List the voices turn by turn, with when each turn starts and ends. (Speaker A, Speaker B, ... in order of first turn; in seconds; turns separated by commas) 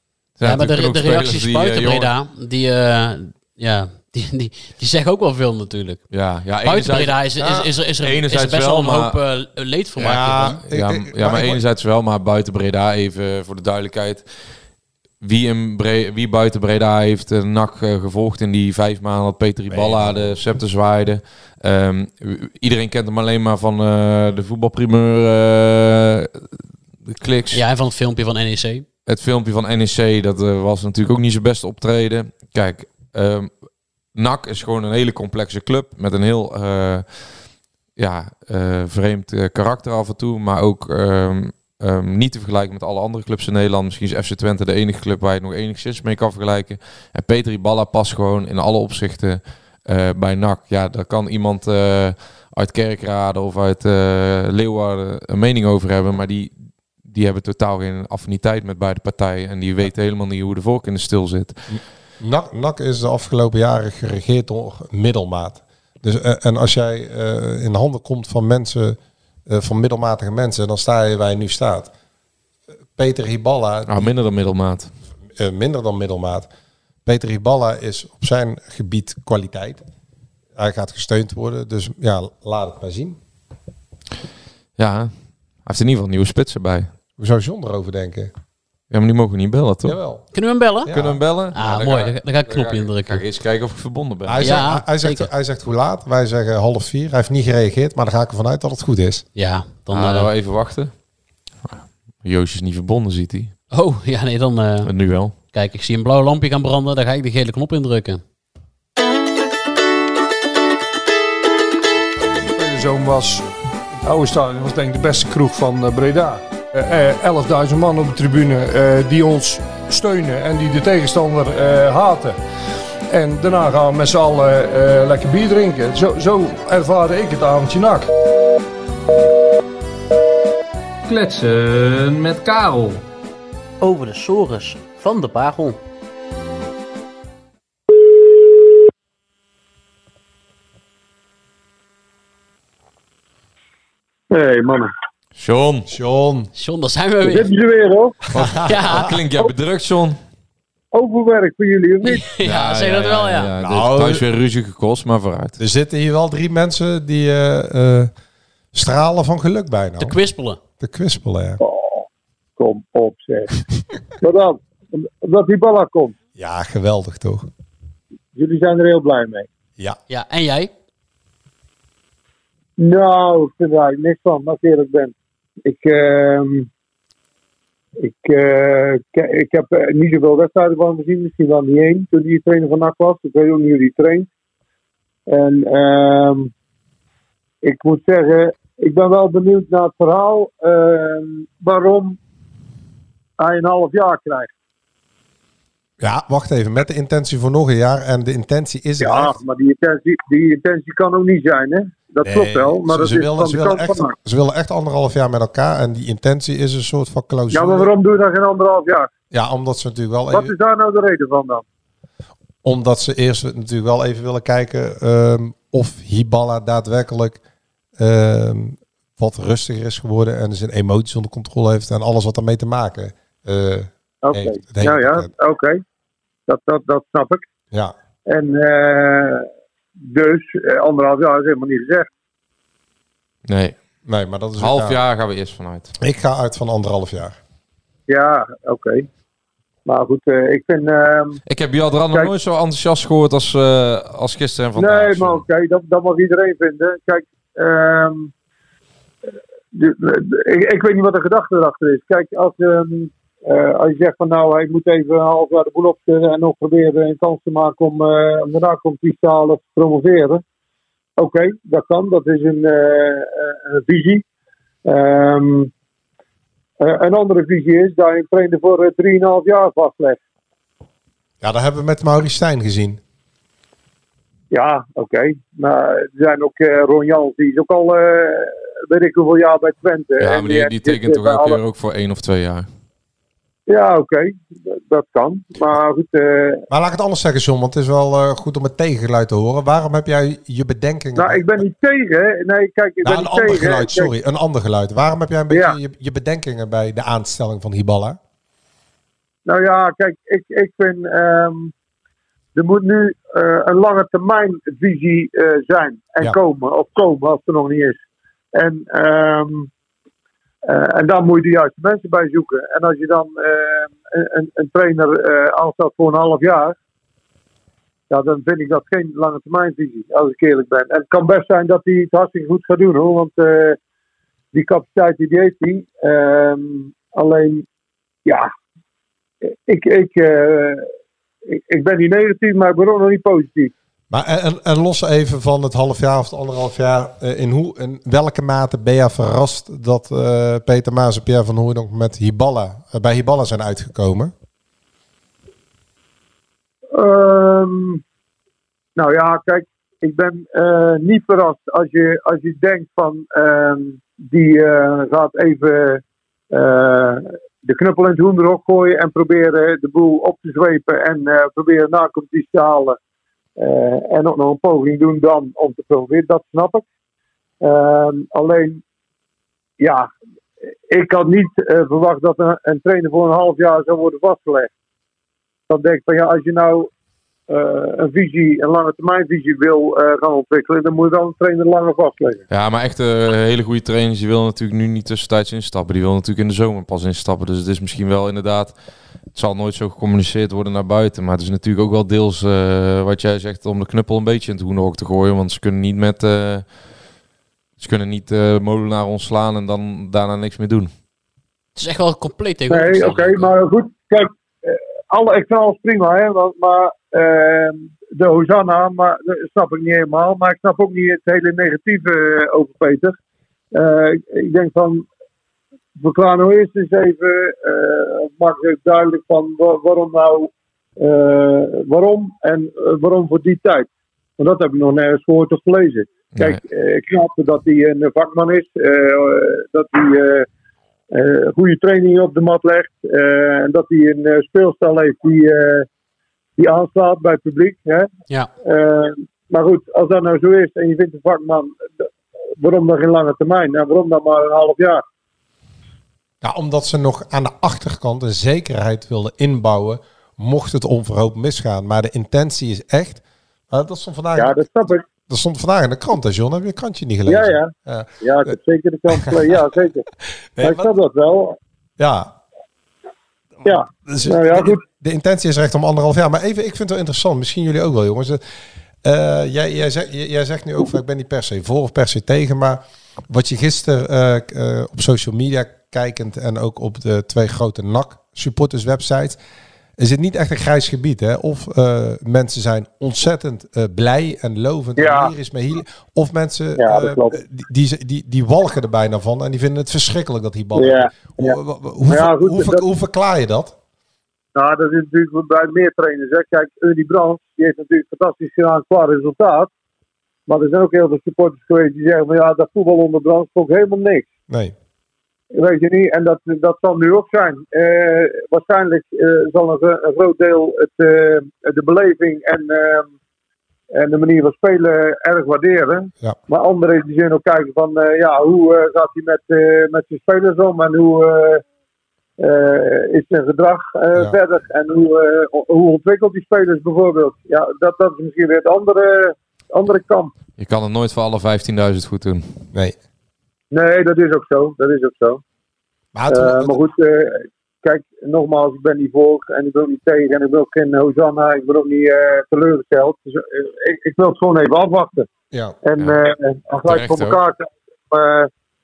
Speaker A: 0.4-2.1, Speaker B: 0.4-6.1, Speaker A: 6.1-7.4, Speaker B: 6.6-10.6, Speaker A: 8.0-9.1, Speaker C: 10.0-11.6, Speaker A: 10.7-14.3, Speaker A: 15.2-26.5, Speaker C: 19.7-20.4, Speaker A: 27.1-27.6, Speaker B: 27.5-28.9, Speaker A: 29.1-33.5, Speaker A: 34.1-37.4, Speaker A: 38.0-61.6, Speaker C: 61.7-71.9, Speaker C: 73.0-74.1, Speaker A: 73.9-74.9, Speaker C: 75.4-76.5, Speaker C: 77.0-79.8, Speaker C: 80.5-83.2, Speaker A: 84.8-85.1, Speaker A: 85.6-86.9, Speaker C: 87.2-88.3, Speaker A: 88.9-90.0, Speaker C: 89.8-90.3, Speaker B: 90.3-90.9, Speaker C: 90.8-91.2, Speaker A: 90.9-94.7, Speaker B: 91.5-93.2, Speaker C: 94.2-99.2, Speaker B: 94.4-95.3, Speaker B: 99.3-100.3, Speaker A: 99.9-100.9, Speaker A: 101.7-103.5, Speaker B: 103.7-104.9, Speaker A: 104.8-105.3, Speaker B: 105.5-108.2, Speaker D: 112.4-113.5, Speaker D: 114.0-122.4, Speaker D: 123.1-128.1, Speaker E: 131.1-133.0, Speaker B: 133.8-135.8, Speaker F: 144.3-144.9, Speaker A: 145.3-145.9, Speaker C: 145.9-146.5, Speaker B: 146.6-147.5, Speaker F: 147.2-148.2, Speaker C: 148.3-148.9, Speaker B: 148.6-149.1, Speaker A: 148.7-150.2, Speaker F: 150.9-152.2, Speaker B: 152.0-153.5, Speaker A: 152.4-155.6, Speaker C: 153.6-154.2, Speaker C: 155.6-158.1, Speaker C: 158.7-160.2, Speaker B: 160.0-160.6, Speaker C: 160.8-161.6, Speaker F: 161.6-162.1, Speaker F: 162.6-163.5, Speaker F: 164.2-166.1, Speaker C: 166.3-167.5, Speaker F: 168.3-169.5, Speaker B: 170.1-170.7, Speaker F: 172.8-175.1, Speaker F: 175.7-176.7, Speaker F: 178.0-184.3, Speaker F: 185.3-186.5, Speaker F: 187.6-192.2, Speaker F: 193.4-194.5, Speaker C: 196.0-199.4, Speaker F: 199.0-204.1, Speaker C: 202.2-207.9, Speaker F: 207.5-209.1, Speaker C: 209.3-210.5, Speaker F: 210.3-211.6, Speaker C: 212.6-217.4, Speaker C: 218.0-225.3, Speaker F: 224.2-225.8, Speaker F: 226.5-227.4, Speaker F: 228.3-229.4, Speaker F: 230.0-232.1, Speaker A: 233.5-233.7, Speaker C: 234.1-235.0, Speaker A: 234.6-235.9, Speaker C: 236.0-237.4, Speaker F: 238.1-239.1, Speaker F: 239.8-241.4, Speaker A: 241.5-245.4, Speaker F: 244.8-248.3, Speaker F: 249.7-260.4, Speaker F: 261.2-264.2, Speaker F: 264.9-265.7, Speaker F: 266.8-270.2, Speaker C: 271.4-273.0, Speaker F: 274.5-281.6, Speaker A: 280.2-282.7, Speaker F: 283.7-286.6, Speaker C: 286.7-291.6, Speaker F: 291.1-294.1, Speaker C: 293.0-298.2, Speaker F: 295.5-295.8, Speaker F: 299.4-301.7, Speaker F: 302.5-308.0, Speaker F: 308.5-309.7, Speaker F: 310.6-316.7, Speaker F: 318.1-323.8, Speaker F: 324.5-327.6, Speaker F: 328.2-328.5, Speaker F: 329.7-330.9, Speaker F: 331.5-333.7, Speaker C: 334.1-344.3, Speaker F: 346.9-348.0, Speaker F: 348.9-363.0, Speaker F: 363.6-366.8, Speaker F: 367.6-368.8, Speaker F: 369.8-370.1, Speaker F: 370.9-374.7, Speaker F: 375.7-376.9, Speaker F: 377.5-382.4, Speaker A: 382.5-388.7, Speaker A: 389.3-396.6, Speaker A: 397.8-400.9, Speaker B: 401.8-403.5, Speaker F: 402.7-413.1, Speaker F: 413.7-415.1, Speaker F: 416.0-430.4, Speaker A: 426.3-426.6, Speaker F: 431.1-435.9, Speaker F: 436.6-438.1, Speaker F: 438.6-442.0, Speaker F: 442.6-445.0, Speaker C: 446.4-458.5, Speaker F: 454.4-455.0, Speaker F: 457.2-460.0, Speaker C: 460.6-460.9, Speaker F: 460.6-461.6, Speaker C: 462.0-462.3, Speaker C: 463.6-468.4, Speaker F: 463.6-464.8, Speaker C: 469.0-479.4, Speaker C: 480.0-493.7, Speaker F: 485.0-485.3, Speaker F: 486.8-487.4, Speaker F: 490.7-492.8, Speaker F: 494.5-499.7, Speaker F: 500.5-504.3, Speaker C: 504.5-504.7, Speaker F: 505.5-513.1, Speaker F: 513.9-521.6, Speaker F: 522.4-530.3, Speaker A: 530.6-532.5, Speaker F: 533.7-535.4, Speaker C: 536.1-536.7, Speaker F: 536.3-545.3, Speaker C: 545.5-545.8, Speaker F: 545.8-548.5, Speaker A: 546.9-547.4